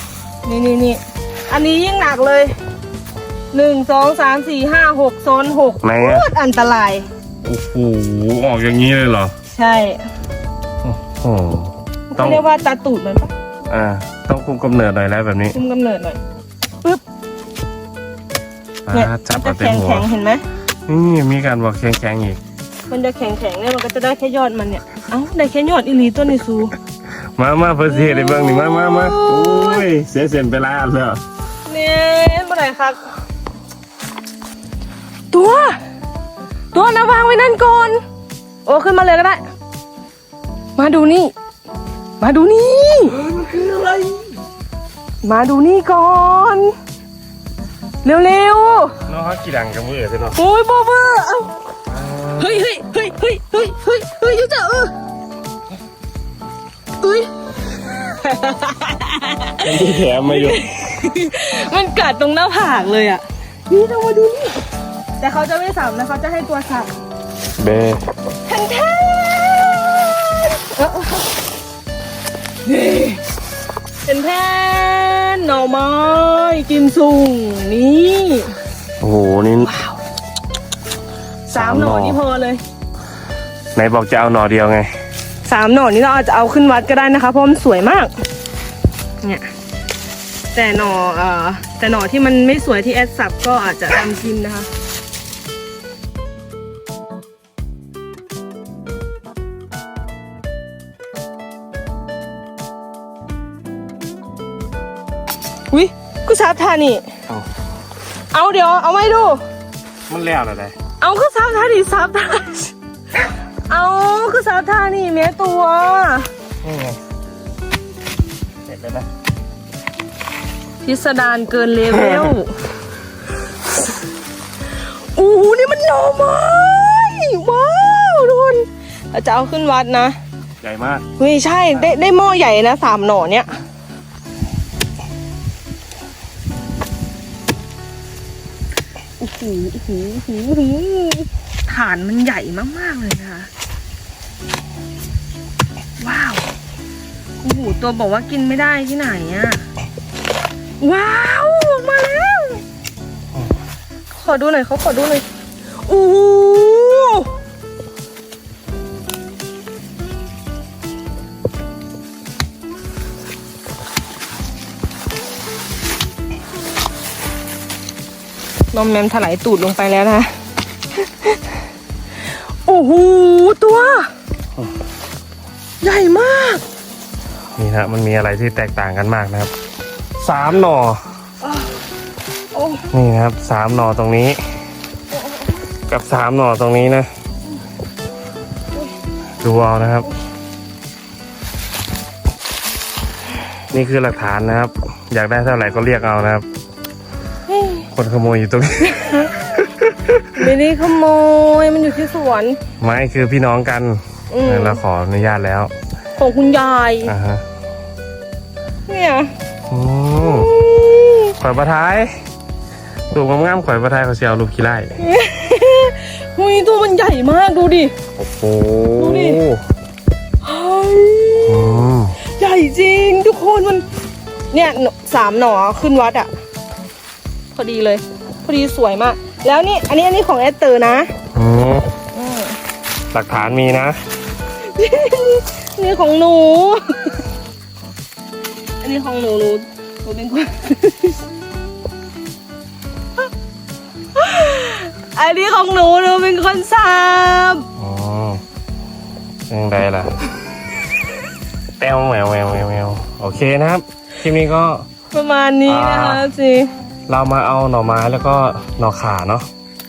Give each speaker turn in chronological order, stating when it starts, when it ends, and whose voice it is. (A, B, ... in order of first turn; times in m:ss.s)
0:00.4-0:02.6 A
0:03.5-0:07.1 A
0:05.8-0:06.3 B
0:07.4-0:09.3 B
0:09.5-0:10.1 A
0:10.8-0:12.4 B
0:12.1-0:13.3 A
0:13.7-0:15.6 B
0:15.5-0:16.2 A
0:18.9-0:20.1 B
0:18.9-0:20.4 A
0:20.9-0:22.4 B
0:22.9-0:26.7 A
0:27.4-0:31.2 B
0:27.9-0:29.9 A
0:31.7-0:33.0 A
0:35.3-0:35.8 A
0:36.7-0:38.0 A
0:38.6-0:39.4 A
0:40.8-0:41.3 A
0:42.2-0:43.2 A
0:43.3-0:44.1 B
0:45.2-0:46.8 A
0:48.0-0:49.0 A
0:49.1-0:50.4 B
0:50.4-0:51.5 A
0:51.9-0:52.4 B
0:52.4-0:54.9 A
0:57.0-0:57.3 A
0:57.9-1:04.6 A
0:59.6-1:00.6 B
1:05.2-1:06.9 A
1:07.6-1:08.0 B
1:08.5-1:11.4 A
1:12.6-1:13.2 A
1:14.0-1:18.6 A
1:19.0-1:19.7 B
1:19.6-1:20.0 A
1:21.5-1:22.6 A
1:21.5-1:22.2 B
1:23.8-1:24.9 B
1:25.4-1:28.1 A
1:29.2-1:29.5 A
1:30.5-1:34.7 A
1:45.7-1:47.1 A
1:48.3-1:49.4 A
1:50.1-1:50.7 B
1:51.0-1:52.7 A
1:53.7-1:56.3 A
1:56.6-1:57.0 B
1:58.7-1:59.1 B
2:00.8-2:02.6 A
2:01.9-2:02.4 B
2:04.7-2:10.2 A
2:10.6-2:11.0 B
2:11.2-2:13.6 A
2:19.2-2:23.5 A
2:26.0-2:26.5 A
2:27.4-2:29.6 A
2:30.8-2:32.6 A
2:34.2-2:35.2 A
2:35.8-2:37.3 A
2:48.7-2:50.3 A
2:51.0-2:51.4 A
2:52.2-2:54.1 A
2:55.8-2:56.6 A
2:57.6-2:59.5 B
3:00.2-3:01.0 B
3:01.4-3:01.7 A
3:02.5-3:02.8 A
3:02.9-3:04.4 B
3:05.1-3:05.5 A
3:05.9-3:07.1 B
3:09.4-3:10.1 B
3:13.7-3:16.4 B
3:17.5-3:17.9 A
3:17.9-3:20.3 B
3:18.8-3:19.5 A
3:20.3-3:22.6 A
3:22.8-3:25.7 B
3:24.3-3:24.8 A
3:26.2-3:27.1 A
3:27.1-3:27.4 B
3:28.9-3:29.3 A
3:29.7-3:30.6 B
3:30.2-3:31.4 A
3:31.4-3:32.2 B
3:33.1-3:34.9 B
3:35.0-3:37.9 A
3:38.2-3:39.6 B
3:39.0-3:39.4 A
3:40.4-3:41.8 A
3:41.5-3:42.2 B
3:42.3-3:43.8 A
3:44.5-3:46.3 A
3:47.5-3:51.1 A
3:51.4-3:51.9 B
3:52.1-3:52.6 A
3:53.1-3:54.0 B
3:54.6-3:57.2 A
3:58.8-4:01.2 A
4:04.2-4:07.6 A
4:07.8-4:08.4 B
4:09.5-4:10.1 B
4:11.8-4:14.9 B
4:15.1-4:16.7 A
4:15.7-4:16.3 B
4:17.1-4:19.5 B